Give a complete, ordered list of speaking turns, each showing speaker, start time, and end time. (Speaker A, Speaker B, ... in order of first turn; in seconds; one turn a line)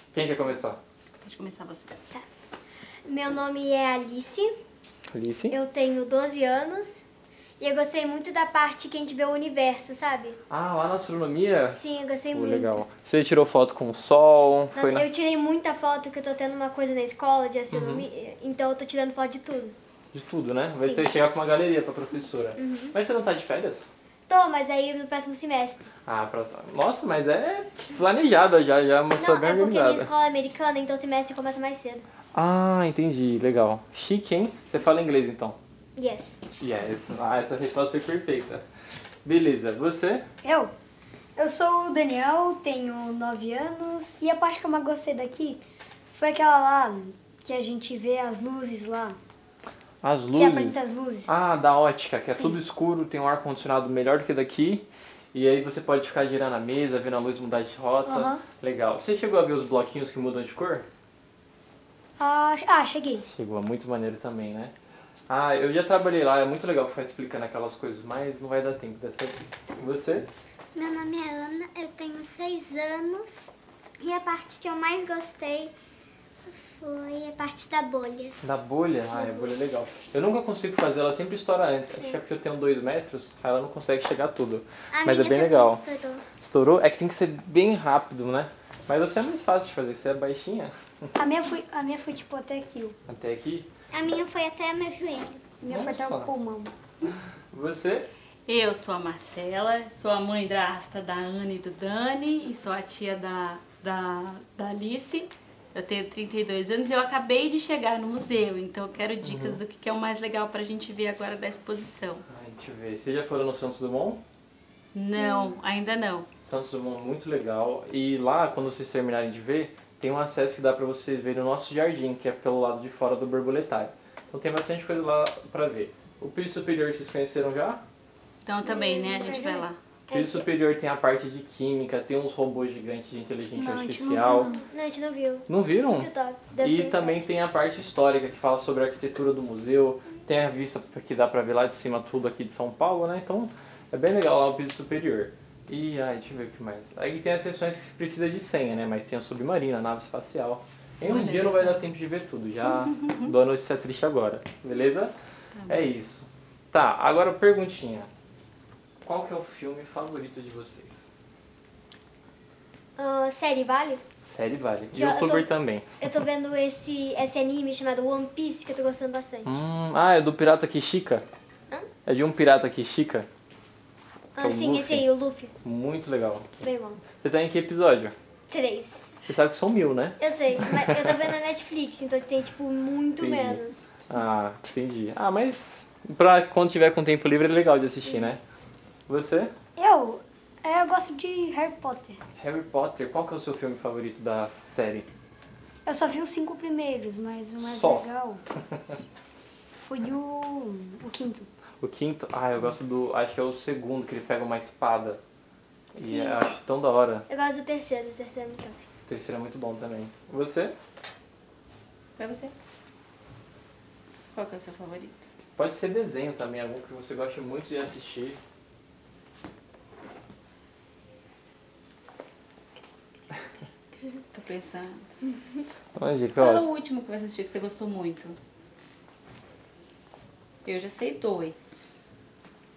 Speaker A: 0.1-0.8
Speaker B: 1.2-2.0
Speaker C: 3.0-4.5
Speaker A: 5.1-5.6
Speaker C: 5.5-7.0
Speaker C: 7.6-10.4
Speaker A: 10.5-11.8
Speaker C: 11.7-12.8
Speaker A: 12.3-15.1
Speaker C: 14.8-19.8
Speaker A: 17.7-18.1
Speaker A: 20.1-23.9
Speaker C: 20.8-21.1
Speaker C: 22.6-23.0
Speaker C: 24.3-25.9
Speaker A: 26.1-30.1
Speaker C: 29.1-32.0
Speaker A: 32.3-35.6
Speaker C: 36.0-36.4
Speaker A: 36.6-38.6
Speaker A: 39.2-40.2
Speaker D: 40.4-40.7
Speaker D: 41.4-45.6
Speaker D: 46.2-49.2
Speaker A: 50.0-60.9
Speaker D: 50.3-51.3
Speaker D: 58.1-58.5
Speaker D: 62.2-63.2
Speaker A: 63.3-64.7
Speaker A: 65.3-70.3
Speaker E: 70.8-75.7
Speaker E: 76.5-78.4
Speaker A: 78.4-91.1
Speaker E: 79.2-79.5
Speaker E: 84.9-86.3
Speaker D: 91.2-93.0
Speaker A: 93.1-93.7
Speaker E: 93.9-95.5
Speaker D: 95.6-96.7
Speaker A: 95.7-96.3
Speaker A: 97.5-98.1
Speaker B: 98.5-112.2
Speaker A: 109.2-109.6
Speaker A: 112.3-114.2
Speaker B: 114.9-116.3
Speaker C: 115.2-115.6
Speaker A: 116.5-127.8
Speaker B: 128.4-129.8
Speaker D: 128.7-129.7
Speaker C: 130.1-130.5
Speaker A: 130.1-134.5
Speaker D: 133.6-134.7
Speaker C: 134.4-137.2
Speaker A: 135.5-155.2
Speaker B: 151.0-151.9
Speaker B: 152.6-153.3
Speaker B: 155.6-155.9
Speaker A: 155.7-158.1
Speaker A: 159.0-161.1
Speaker C: 163.0-164.0
Speaker A: 164.2-166.1
Speaker C: 164.9-165.5
Speaker C: 166.0-169.6
Speaker A: 169.4-171.3
Speaker A: 172.1-173.3
Speaker C: 174.3-175.5
Speaker A: 174.4-175.1
Speaker A: 175.6-176.5
Speaker C: 176.6-177.0
Speaker A: 177.2-178.2
Speaker C: 178.5-179.2
Speaker A: 179.3-181.2
Speaker C: 180.2-183.9
Speaker A: 183.2-188.4
Speaker A: 189.1-189.5
Speaker D: 189.8-192.2
Speaker A: 192.4-195.1
Speaker D: 195.9-198.4
Speaker A: 197.6-198.1
Speaker D: 199.8-201.5
Speaker A: 201.8-205.2
Speaker C: 205.9-206.5
Speaker A: 206.0-207.3
Speaker C: 207.3-208.9
Speaker A: 209.1-210.8
Speaker B: 212.2-212.5
Speaker B: 214.3-215.2
Speaker A: 215.6-218.4
Speaker B: 224.3-225.1
Speaker A: 226.0-226.7
Speaker B: 226.3-228.4
Speaker B: 230.7-231.8